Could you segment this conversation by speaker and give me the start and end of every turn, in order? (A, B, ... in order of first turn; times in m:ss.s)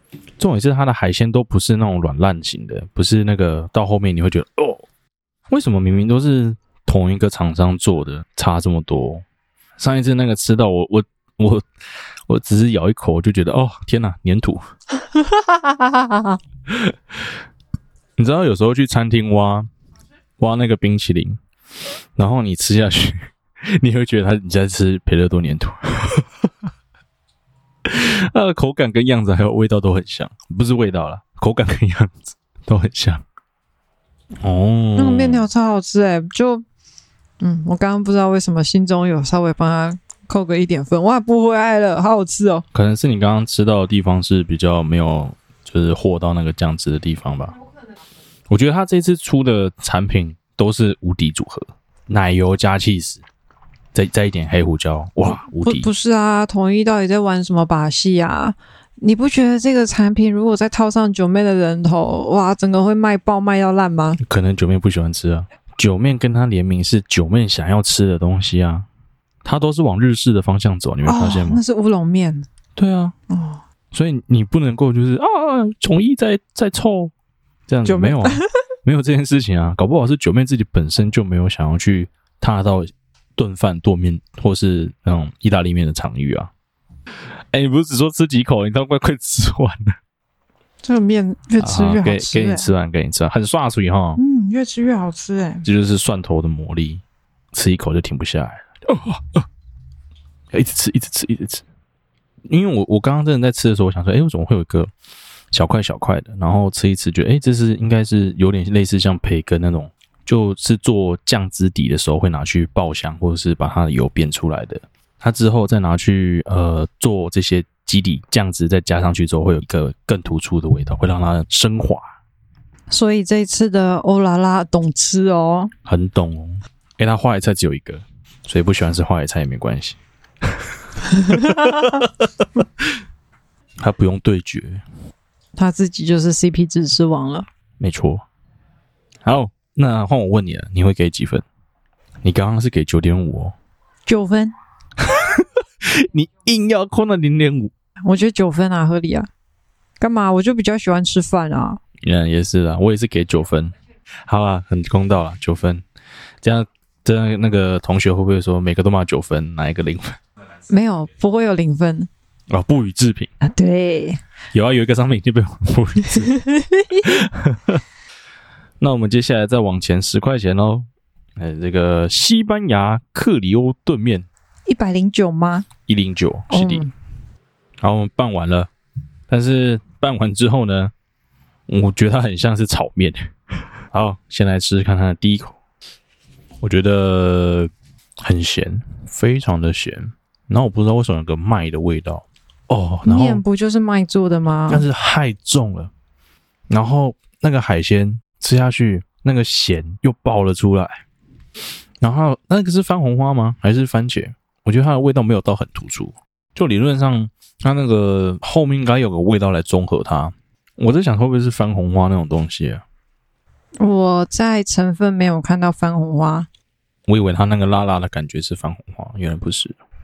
0:00.4-0:04.8 A
0:05.5-0:09.2 A
0:09.8-0:11.6 A
0:12.3-0:14.6 A
0:15.1-0:16.4 B
0:18.2-0:19.7 A
0:20.4-0:21.4 A
0:22.2-0:26.4 A
0:27.8-0:33.2 A
0:34.4-0:35.4 A
0:35.0-0:36.6 B
0:37.4-0:42.6 B
0:42.7-0:47.6 A
0:48.5-0:53.2 A
0:53.9-0:55.9 A
0:55.3-1:04.2 B
1:04.2-1:08.8 A
1:09.4-1:11.6 A
1:11.0-1:12.5 B
1:12.8-1:13.1 A
1:13.3-1:13.6 B
1:13.9-1:17.1 A
1:17.7-1:26.5 A
1:17.8-1:18.5 B
1:27.5-1:29.9 A
1:30.8-1:32.7 B
1:31.6-1:34.2 A
1:34.2-1:35.6 B
1:35.6-1:39.5 A
1:40.5-1:41.6 A
1:42.5-1:44.9 A
1:45.5-2:02.1 A
2:02.9-2:05.7 B
2:05.9-2:12.9 A
2:11.3-2:11.6 B
2:13.8-2:14.8 A
2:15.6-2:17.5 B
2:17.8-2:18.2 A
2:19.2-2:21.4 A
2:22.2-2:23.5 A
2:24.0-2:24.5 B
2:25.0-2:27.7 A
2:28.0-2:29.3 B
2:30.0-2:31.8 B
2:32.0-2:33.7 A
2:34.2-2:35.8 A
2:36.4-2:40.2 A
2:40.7-2:42.1 B
2:42.5-2:43.3 A
2:43.4-2:44.2 B
2:44.5-2:46.4 A
2:46.3-2:47.2 B
2:47.0-2:47.8 A
2:48.8-2:54.2 A
2:54.6-2:55.7 B
2:55.9-2:56.9 A
2:56.5-2:56.9 B
2:57.8-2:58.7 A
2:59.3-3:00.9 A
3:01.7-3:03.3 A
3:03.9-3:05.6 A
3:06.6-3:13.4 A
3:13.0-3:14.8 B
3:14.7-3:15.9 A
3:16.7-3:21.0 A
3:22.0-3:32.8 A
3:33.8-3:36.5 B
3:37.1-3:39.8 A